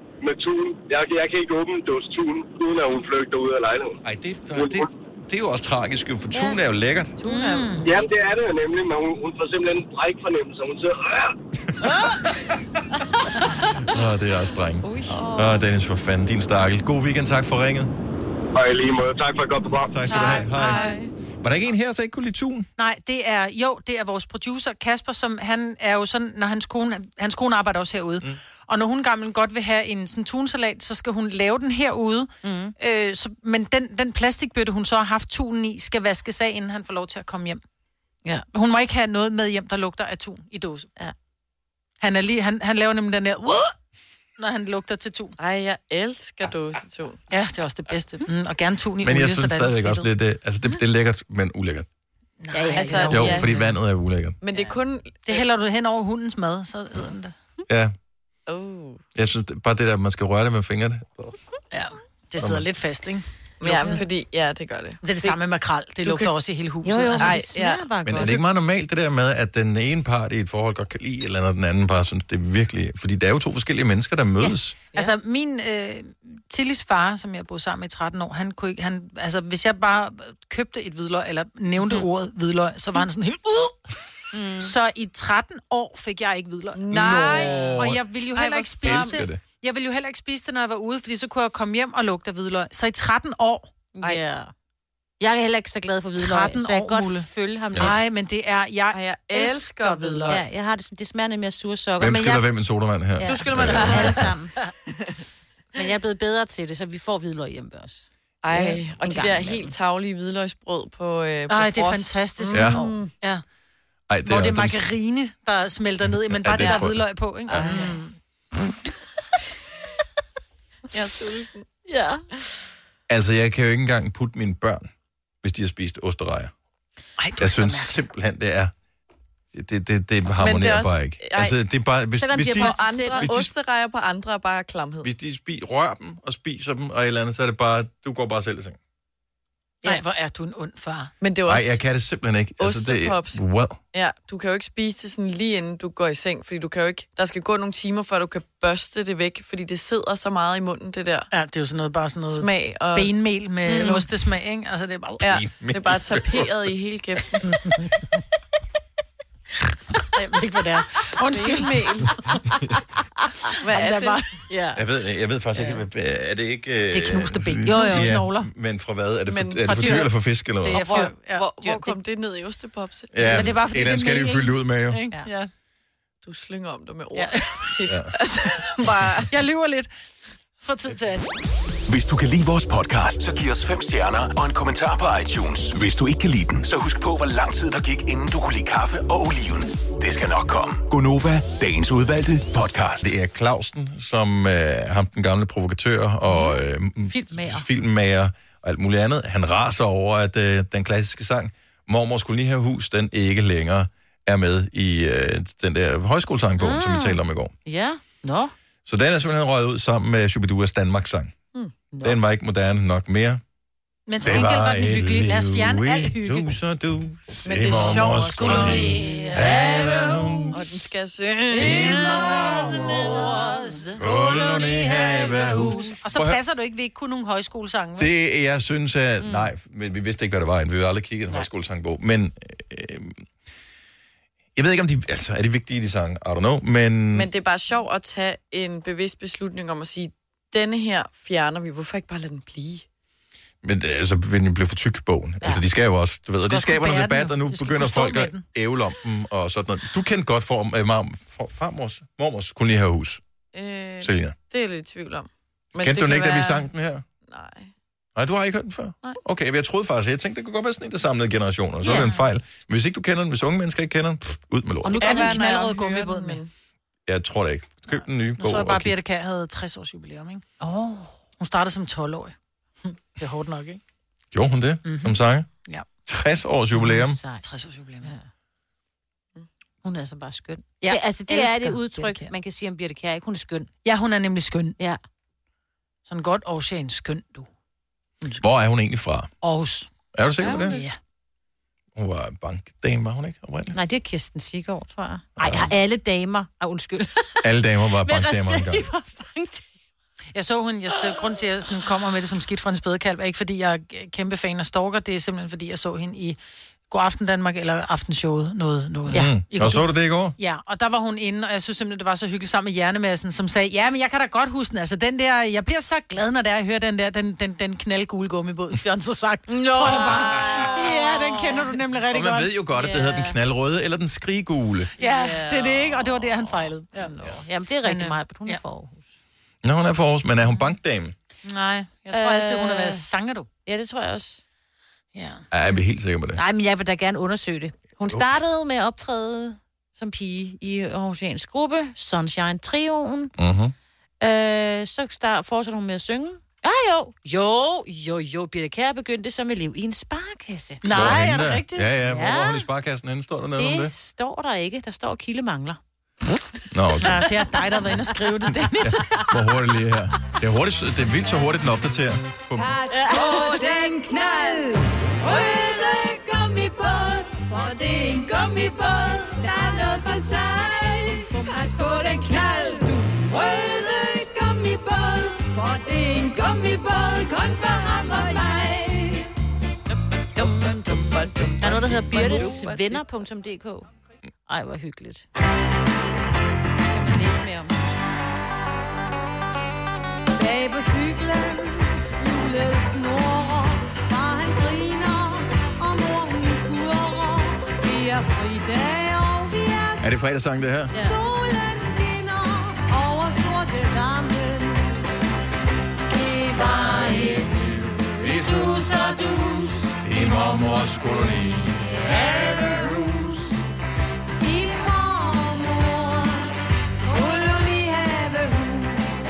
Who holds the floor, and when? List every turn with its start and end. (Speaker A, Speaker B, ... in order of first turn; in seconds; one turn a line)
Speaker A: 0.2-4.0
Speaker B: 4.0-7.1
Speaker A: 4.5-4.9
Speaker C: 7.2-7.8
Speaker D: 7.2-7.9
Speaker A: 7.8-11.3
Speaker B: 13.7-17.9
Speaker C: 14.8-15.5
Speaker A: 18.6-20.0
Speaker B: 19.9-20.9
Speaker C: 20.1-21.1
Speaker D: 20.1-20.9
Speaker B: 21.4-22.7
Speaker D: 22.8-37.6
Speaker E: 32.4-32.7
Speaker D: 38.5-40.9
Speaker D: 42.0-43.7
Speaker D: 44.4-45.4
Speaker C: 45.4-47.2
Speaker D: 47.3-50.1
Speaker C: 47.9-48.2
Speaker B: 49.0-51.9
Speaker D: 52.4-53.4
Speaker E: 52.5-53.5
Speaker C: 52.7-53.6
Speaker B: 53.1-54.4
Speaker C: 54.4-55.4
Speaker D: 55.3-57.3
Speaker B: 57.7-57.9
Speaker C: 58.5-59.0
Speaker B: 59.1-61.3
Speaker D: 61.7-64.0
Speaker B: 62.4-62.6
Speaker C: 63.6-65.4
Speaker D: 65.0-67.5
Speaker C: 66.0-66.3
Speaker E: 66.8-68.4
Speaker C: 67.2-68.4
Speaker B: 68.0-74.8
Speaker E: 74.4-75.1
Speaker D: 74.9-83.8
Speaker E: 81.8-82.0
Speaker E: 84.3-84.7
Speaker D: 84.6-93.7
Speaker C: 86.7-89.2
Speaker B: 86.9-88.0
Speaker B: 88.8-89.4
Speaker E: 94.0-94.5
Speaker E: 95.2-98.0
Speaker D: 96.2-100.4
Speaker C: 98.9-100.4
Speaker E: 100.3-102.4
Speaker B: 102.0-104.3
Speaker E: 103.2-104.5
Speaker C: 103.2-104.3
Speaker E: 105.7-109.7
Speaker C: 108.4-113.1
Speaker D: 111.5-113.4
Speaker B: 112.5-112.8
Speaker B: 114.1-114.9
Speaker D: 114.2-118.2
Speaker B: 116.3-117.7
Speaker C: 116.6-116.8
Speaker C: 117.5-118.0
Speaker C: 120.9-121.7
Speaker E: 121.9-122.2
Speaker B: 123.1-124.9
Speaker B: 125.4-126.5
Speaker D: 127.2-128.0
Speaker B: 127.4-128.7
Speaker B: 129.5-133.5
Speaker C: 130.4-131.6
Speaker E: 132.2-133.3
Speaker C: 132.5-135.1
Speaker B: 135.0-138.8
Speaker D: 139.8-141.1
Speaker C: 141.2-141.8
Speaker B: 141.4-143.8
Speaker C: 142.6-143.4
Speaker C: 143.9-151.3
Speaker D: 151.3-155.2
Speaker C: 152.3-153.1
Speaker E: 153.7-154.1
Speaker B: 155.2-156.9
Speaker C: 155.2-157.4
Speaker D: 157.4-158.0
Speaker D: 160.1-162.0
Speaker C: 161.3-162.2
Speaker C: 163.6-164.3
Speaker D: 163.7-164.3
Speaker E: 164.5-164.8
Speaker B: 164.8-170.8
Speaker D: 166.9-168.5
Speaker E: 167.7-168.2
Speaker C: 169.3-170.1
Speaker D: 169.7-170.1
Speaker C: 170.6-173.6
Speaker D: 170.7-171.9
Speaker B: 173.1-175.1
Speaker D: 173.2-175.5
Speaker C: 176.2-179.3
Speaker D: 177.1-177.6
Speaker B: 177.8-178.1
Speaker D: 179.3-179.9
Speaker D: 180.6-181.3
Speaker F: 181.9-193.1
Speaker B: 193.0-207.5
Speaker E: 196.3-197.7
Speaker E: 206.6-208.5
Speaker B: 208.8-211.3
Speaker B: 212.0-213.4
Speaker D: 214.1-216.6
Speaker B: 214.2-220.7
Speaker C: 217.4-219.3
Speaker D: 217.7-220.2
Speaker C: 220.5-222.0
Speaker D: 221.5-228.1
Speaker B: 221.6-223.3
Speaker B: 224.0-226.4
Speaker B: 228.0-233.3
Speaker E: 229.2-229.5
Speaker B: 234.6-237.3
Speaker C: 237.1-242.8
Speaker B: 243.6-253.2
Speaker D: 246.5-248.4
Speaker C: 253.5-256.7
Speaker B: 254.0-254.3
Speaker B: 255.8-257.0
Speaker C: 257.3-257.7
Speaker B: 258.1-265.1
Speaker E: 261.8-262.2
Speaker E: 264.8-265.5
Speaker C: 264.9-266.5
Speaker D: 265.0-266.4
Speaker B: 267.1-268.9
Speaker D: 268.4-270.4
Speaker E: 270.6-271.1
Speaker D: 271.4-273.8
Speaker B: 274.3-275.5
Speaker D: 274.8-275.9
Speaker B: 276.1-277.2
Speaker E: 276.9-277.4
Speaker D: 276.9-278.1
Speaker E: 279.8-283.7
Speaker D: 280.8-282.3
Speaker D: 283.8-284.8
Speaker D: 286.1-287.5
Speaker B: 288.4-289.3
Speaker D: 289.4-289.9
Speaker B: 290.1-290.8
Speaker D: 290.4-290.9
Speaker C: 290.4-290.9
Speaker B: 291.9-293.8
Speaker E: 293.7-299.7
Speaker B: 295.4-295.7
Speaker B: 297.4-298.8
Speaker D: 300.3-306.4
Speaker D: 306.9-322.5
Speaker B: 309.1-310.3
Speaker E: 319.5-321.8
Speaker B: 320.1-320.6
Speaker B: 322.1-324.9
Speaker E: 322.8-323.4
Speaker E: 325.0-329.1
Speaker D: 325.0-327.1
Speaker D: 327.8-328.6
Speaker B: 329.6-331.1
Speaker D: 331.4-333.5
Speaker E: 332.1-333.0
Speaker E: 333.6-334.4
Speaker D: 335.1-335.4
Speaker B: 335.5-336.4
Speaker E: 336.4-343.3
Speaker B: 343.4-343.7
Speaker E: 344.2-350.8
Speaker D: 350.8-351.9
Speaker B: 350.9-353.9
Speaker E: 352.1-352.7
Speaker E: 353.6-355.8
Speaker B: 356.7-357.2
Speaker D: 357.0-359.6
Speaker B: 358.8-362.7
Speaker G: 362.6-379.3
Speaker E: 362.9-363.5
Speaker E: 380.4-380.8
Speaker C: 380.4-382.9
Speaker E: 381.6-383.9
Speaker E: 384.5-385.2
Speaker E: 386.9-387.8
Speaker G: 390.4-400.0
Speaker B: 400.0-400.9
Speaker E: 400.9-401.2
Speaker G: 401.1-405.0
Speaker G: 406.1-410.8
Speaker E: 407.0-407.3
Speaker B: 408.2-408.8
Speaker E: 408.8-409.4
Speaker B: 410.0-413.2
Speaker G: 412.2-413.3
Speaker G: 414.4-419.0